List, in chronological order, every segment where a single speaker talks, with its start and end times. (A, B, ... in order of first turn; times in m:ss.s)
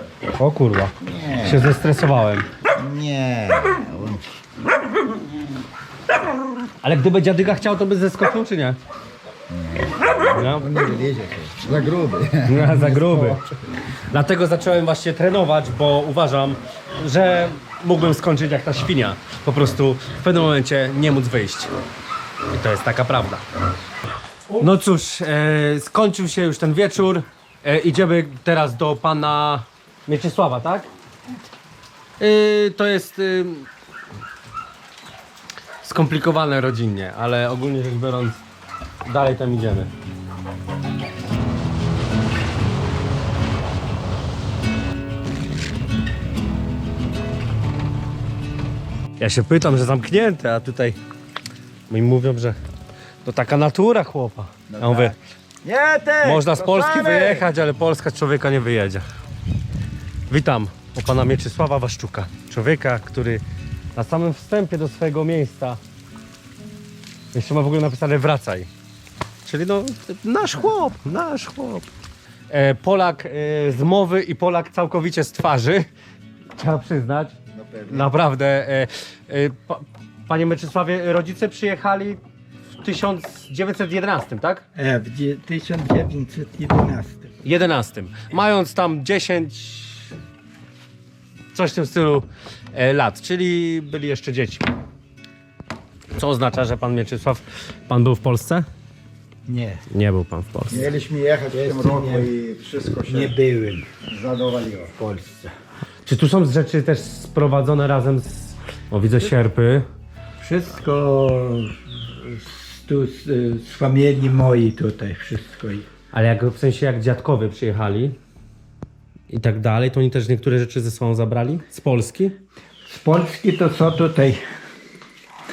0:00.3-0:02.5 A
0:01.0-0:01.7 B
0:02.8-0:04.4 B
0:06.8-0:08.8 A
0:09.5-0:13.6 B
0:10.3-0:10.7 A
0:12.5-0:13.4 A
0:14.1-0:21.7 A
0:22.5-0:23.4 A
0:24.6-0:30.9 A
0:32.2-0:33.7 A
0:35.8-0:38.4 A
0:39.0-0:39.9 A
0:49.2-0:51.0 A
0:51.9-0:52.6 A
0:53.2-0:55.1 A
0:54.7-0:57.5 B
0:56.2-0:59.0 A
1:00.3-1:03.4 A
1:04.0-1:05.8 A
1:07.3-1:08.7 A
1:09.4-1:11.9 A
1:12.5-1:15.9 A
1:16.6-1:17.4 A
1:17.5-1:18.1 B
1:17.9-1:22.2 A
1:22.8-1:24.6 A
1:24.8-1:27.3 C
1:27.4-1:30.1 A
1:31.5-1:34.7 A
1:36.1-1:38.7 A
1:39.5-1:39.9 C
1:39.9-1:40.9 A
1:40.7-1:43.4 B
1:41.5-1:42.3 C
1:43.0-1:43.9 C
1:44.1-1:44.9 B
1:45.0-1:45.5 C
1:46.0-1:49.9 A
1:50.4-1:55.9 C
1:56.1-1:58.2 A
1:59.3-2:02.4 A
2:02.9-2:04.4 C